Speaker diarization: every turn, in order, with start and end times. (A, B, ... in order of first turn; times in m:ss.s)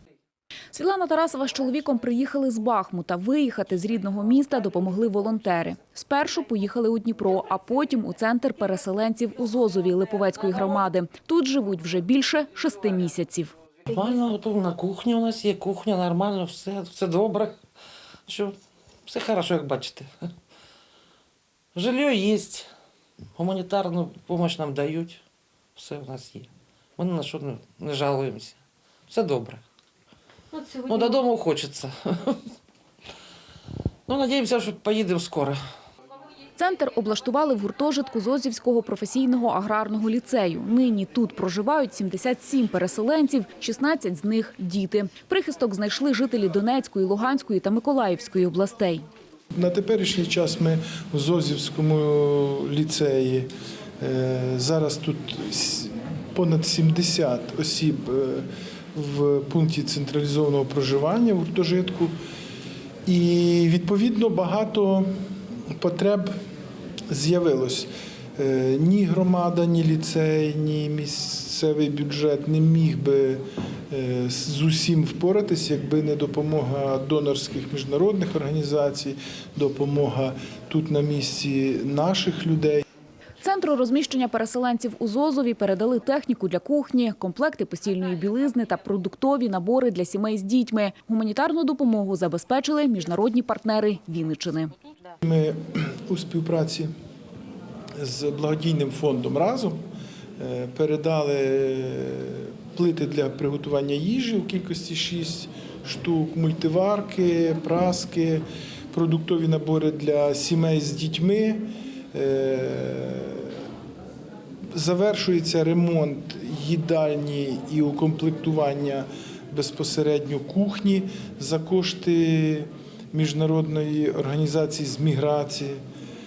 0:00.7-0:13.5 A
0:13.9-0:17.6 B
0:18.3-0:18.6 B
0:19.1-0:20.1 B
0:21.7-0:22.7 B
0:23.4-0:25.2 B
0:25.8-0:29.6 B
0:30.9-0:32.4 B
0:34.1-0:35.6 B
0:36.6-0:49.0 A
0:49.5-0:53.5 C
0:54.0-1:02.1 C
1:03.0-1:05.1 C
1:05.8-1:06.3 C
1:07.1-1:22.8 C
1:23.4-1:34.7 A
1:35.2-1:36.9 C
1:38.0-1:39.8 C
1:40.4-1:53.6 C
1:54.7-2:05.8 C